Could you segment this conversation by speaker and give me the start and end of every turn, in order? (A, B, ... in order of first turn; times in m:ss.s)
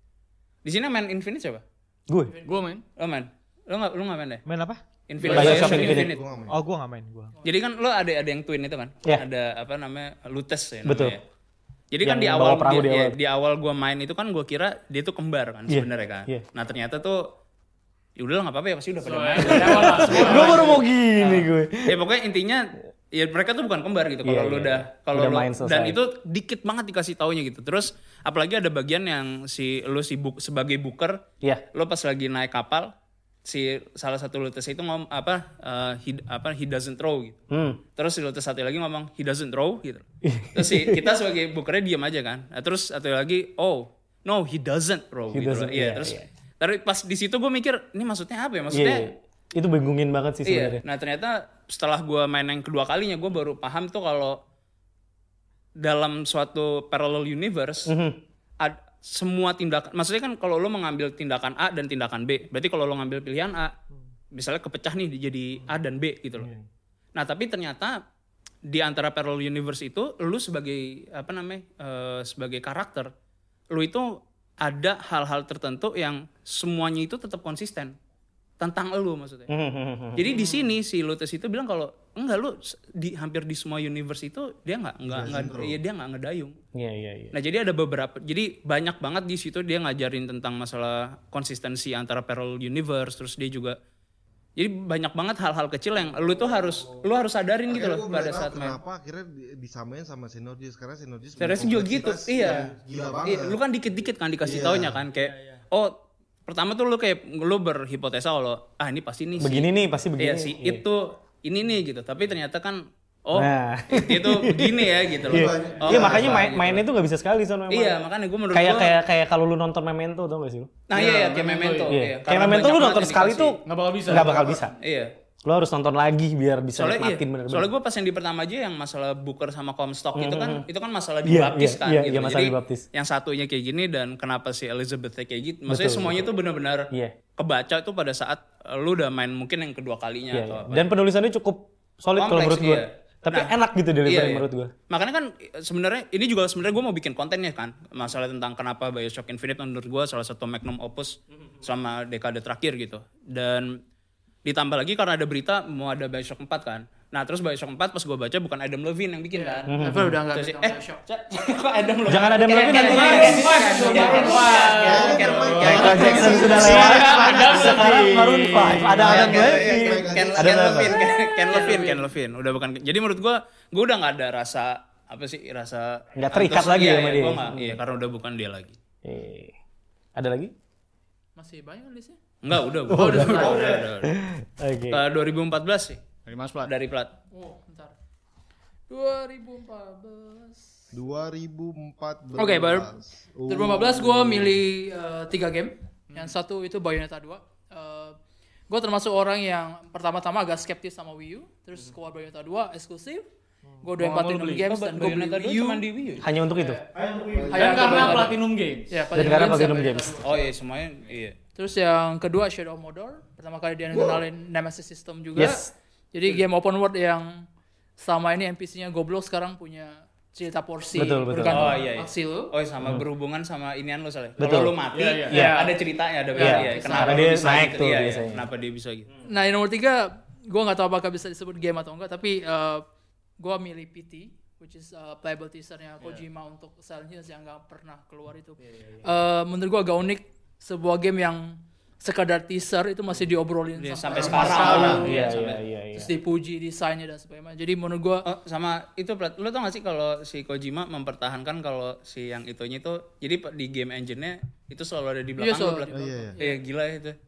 0:00.6-0:01.6 A
0:02.1-0:02.3 B
0:02.3-0:02.7 C
0:02.4-0:02.8 D
0:03.0-0:04.4 A
0:04.4-0:04.8 E
0:05.1-0:06.2 A
0:05.2-0:06.6 F
0:05.3-0:06.1 B
0:06.5-0:07.3 E
0:07.4-0:11.2 A
0:10.8-0:11.2 B
0:11.9-0:17.2 A
0:12.0-0:13.2 B
0:15.7-0:16.4 B
0:18.2-0:31.2 A
0:19.0-0:20.8 D
0:19.6-0:22.0 B
0:24.2-0:26.0 B
0:31.7-0:32.9 A
0:33.4-0:37.4 A
0:37.5-0:37.8 B
0:38.0-0:40.0 A
0:40.2-0:41.1 B
0:40.5-0:49.1 A
0:45.3-0:46.2 B
0:48.7-0:50.8 B
0:50.4-0:54.4 A
0:55.8-0:57.9 A
0:57.8-0:58.2 B
0:58.6-1:03.7 A
1:04.3-1:06.5 A
1:07.2-1:08.0 A
1:08.7-1:13.1 A
1:13.7-1:14.1 A
1:14.6-1:17.9 A
1:18.6-1:19.5 A
1:19.5-1:20.4 B
1:20.1-1:26.5 A
1:25.0-1:25.7 F
1:26.7-1:27.3 B
1:27.3-1:33.8 A
1:34.6-1:38.8 A
1:37.7-1:43.6 F
1:41.4-1:42.7 A
1:43.2-1:45.9 A
1:44.4-1:45.0 F
1:46.5-1:56.8 A
1:49.4-1:50.8 B
1:53.3-2:00.8 B
1:55.3-1:56.5 F
1:57.7-1:58.9 A
2:00.9-2:03.6 A
2:00.9-2:02.0 D
2:01.9-2:04.7 B
2:03.6-2:04.5 D
2:04.8-2:05.1 A
2:05.4-2:07.7 B
2:06.8-2:20.9 A
2:10.1-2:10.6 B
2:11.2-2:12.8 B
2:15.7-2:16.3 B
2:20.3-2:24.7 B
2:22.2-2:23.5 A
2:24.0-2:33.7 A
2:34.4-2:47.0 A
2:39.3-2:41.0 C
2:39.7-2:40.2 B
2:42.0-2:43.5 B
2:42.5-2:47.2 C
2:42.9-2:46.0 D
2:44.8-2:47.2 F
2:45.6-2:51.0 B
2:46.4-2:48.2 E
2:46.9-2:49.1 D
2:48.9-2:51.0 F
2:49.0-2:58.7 A
2:51.0-2:52.1 C
2:56.2-2:57.8 B
2:59.0-2:59.5 B
3:00.2-3:00.5 B
3:01.4-3:02.2 C
3:02.4-3:04.1 A
3:02.9-3:05.0 B
3:02.9-3:03.8 C
3:04.9-3:06.0 A
3:06.2-3:06.7 D
3:06.6-3:07.1 A
3:07.3-3:07.9 C
3:08.9-3:10.6 C
3:10.9-3:14.6 F
3:12.4-3:12.9 C
3:13.5-3:18.2 C
3:18.7-3:23.2 C
3:23.8-3:25.8 C
3:24.0-3:24.6 D
3:24.6-3:26.2 A
3:26.2-3:26.8 B
3:26.5-3:26.8 C
3:26.9-3:28.3 E
3:27.3-3:28.1 F
3:27.5-3:28.4 C
3:27.5-3:28.9 D
3:28.9-3:30.5 C
3:29.1-3:30.2 B
3:30.2-3:31.4 A
3:31.6-3:37.4 C
3:33.9-3:34.2 F
3:35.4-3:35.7 B
3:38.0-3:42.5 C
3:41.0-3:41.7 B
3:41.5-3:49.1 A
3:44.4-3:44.8 B
3:44.9-3:45.6 D
3:45.3-3:45.6 B
3:45.4-3:45.6 C
3:46.3-3:47.3 C
3:46.4-3:48.5 B
3:49.2-3:52.8 C
3:53.4-4:05.3 C
4:03.8-4:05.4 A
4:04.2-4:06.1 B
4:04.2-4:05.6 D
4:05.9-4:08.2 C
4:08.2-4:17.2 A
4:15.4-4:16.6 C
4:15.9-4:16.4 F